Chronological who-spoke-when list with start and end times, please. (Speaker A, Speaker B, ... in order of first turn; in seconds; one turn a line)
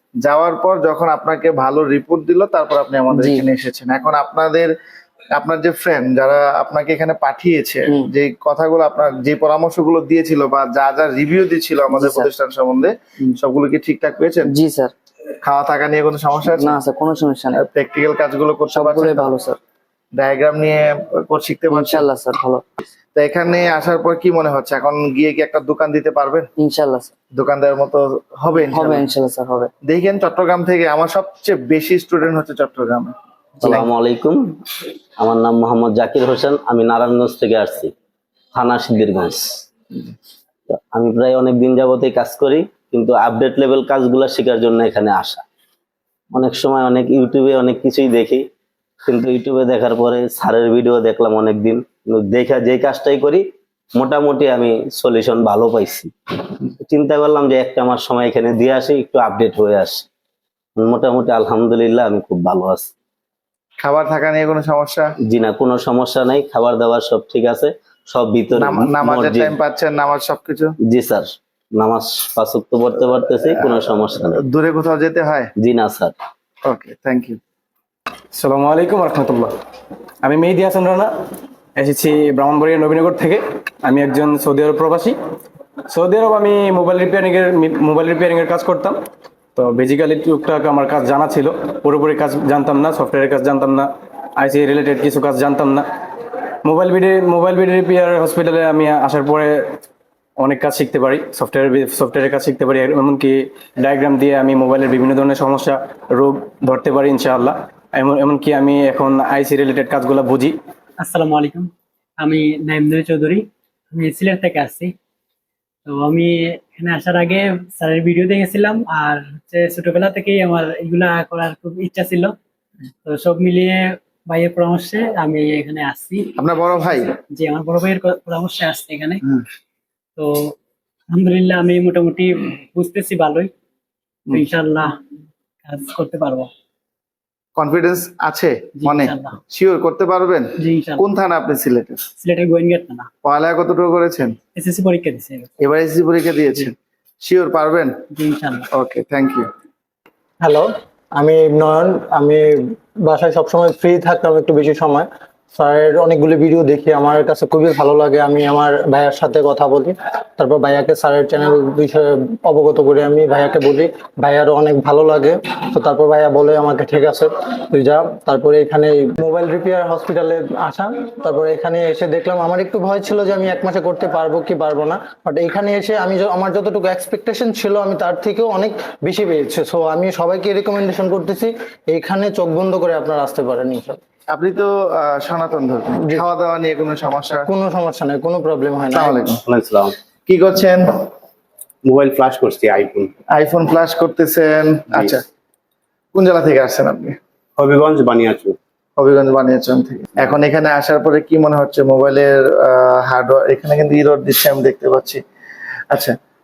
Speaker A: 0.2-4.7
Speaker B: 3.1-3.5
Speaker A: 5.4-14.5
Speaker B: 11.9-12.3
Speaker B: 14.4-14.9
Speaker A: 15.4-16.8
Speaker B: 16.6-17.6
Speaker A: 17.6-19.3
Speaker B: 18.7-19.6
Speaker A: 20.2-22.0
Speaker B: 21.7-22.6
Speaker A: 23.2-26.5
Speaker B: 26.6-27.1
Speaker A: 27.4-29.0
Speaker B: 28.5-29.7
Speaker A: 29.9-33.1
Speaker C: 33.6-34.5
Speaker C: 35.2-37.9
Speaker C: 38.5-39.6
Speaker C: 40.7-45.4
Speaker C: 46.3-48.5
Speaker C: 49.1-56.1
Speaker C: 56.8-60.0
Speaker C: 60.8-62.9
Speaker A: 63.8-65.0
Speaker C: 65.2-69.6
Speaker A: 68.6-70.7
Speaker C: 70.9-74.4
Speaker A: 74.5-75.5
Speaker C: 75.6-76.2
Speaker A: 76.8-77.4
Speaker D: 78.3-79.5
Speaker D: 80.2-81.1
Speaker D: 81.8-85.2
Speaker D: 85.9-89.0
Speaker D: 89.6-95.9
Speaker D: 96.6-99.8
Speaker D: 100.4-110.6
Speaker E: 111.0-114.9
Speaker E: 115.9-122.3
Speaker E: 123.1-129.2
Speaker A: 126.4-127.1
Speaker E: 130.2-130.5
Speaker E: 131.1-133.5
Speaker E: 134.3-134.9
Speaker E: 135.7-136.5
Speaker A: 137.6-142.0
Speaker E: 138.8-139.4
Speaker E: 140.6-141.1
Speaker E: 142.2-143.1
Speaker A: 143.2-144.3
Speaker E: 144.6-145.5
Speaker A: 145.6-146.7
Speaker A: 147.2-147.9
Speaker E: 148.1-148.7
Speaker A: 148.8-149.4
Speaker F: 150.4-152.5
Speaker F: 153.1-184.0
Speaker A: 184.3-187.5
Speaker F: 187.5-189.3
Speaker A: 188.9-189.4
Speaker A: 190.3-190.8
Speaker G: 191.9-193.1
Speaker A: 193.3-195.2
Speaker A: 196.1-197.2
Speaker G: 197.6-198.5
Speaker A: 199.0-205.2